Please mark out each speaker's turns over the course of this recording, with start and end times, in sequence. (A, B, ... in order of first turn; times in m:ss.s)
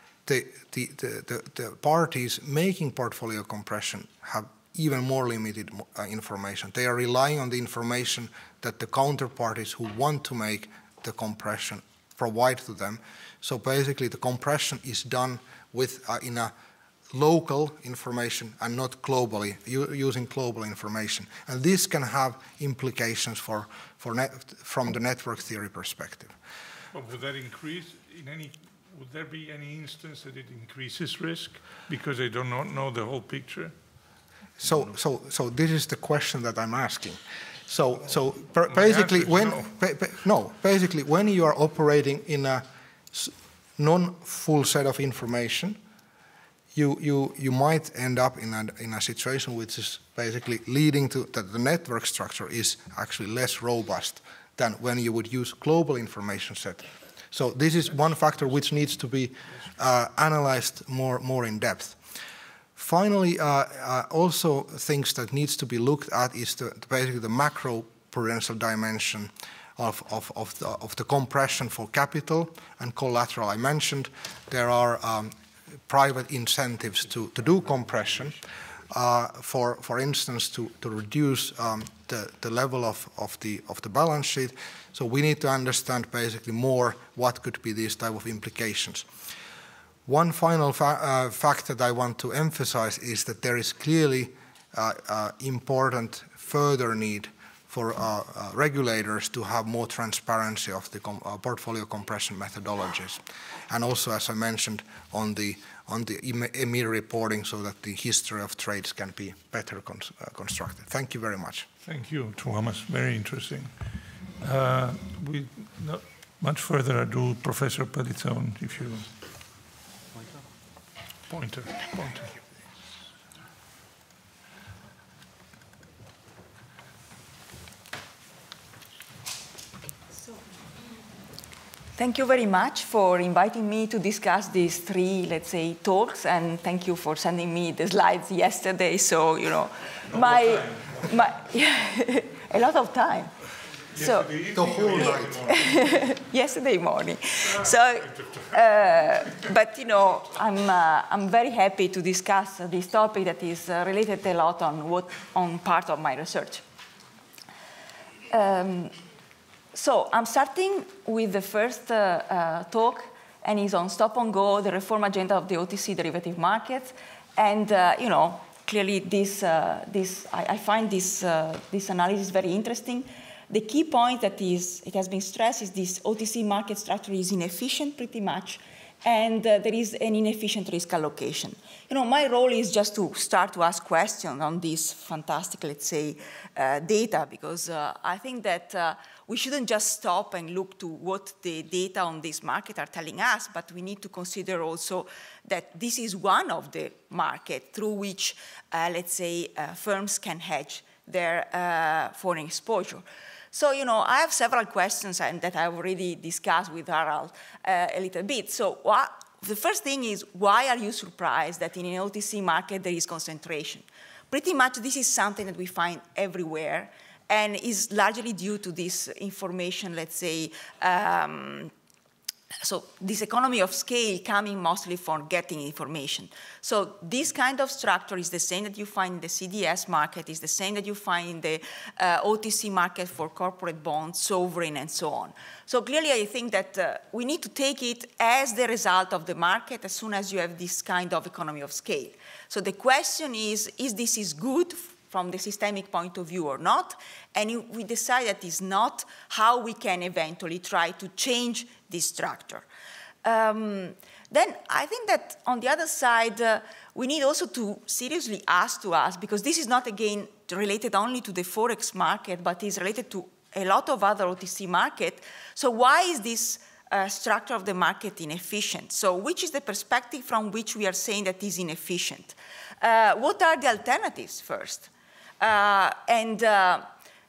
0:00.2-0:16.5 A
0:17.1-0:26.3 A
0:26.9-0:33.7 B
0:34.6-0:45.8 A
0:38.7-0:39.7 B
0:46.7-1:02.0 A
1:02.8-1:15.3 A
1:15.9-1:29.0 A
1:30.0-1:51.7 A
1:51.8-1:53.7 B
1:54.4-1:59.1 B
2:01.3-2:02.4 B
2:12.0-2:23.3 C
2:20.1-2:21.1 B
2:23.9-2:26.1 B
2:24.0-2:24.4 C
2:24.5-2:25.6 A
2:24.9-2:36.6 C
2:27.4-2:28.6 B
2:38.3-2:38.9 C
2:39.7-3:41.7 C
3:42.6-4:12.6 C
4:13.2-4:36.9 C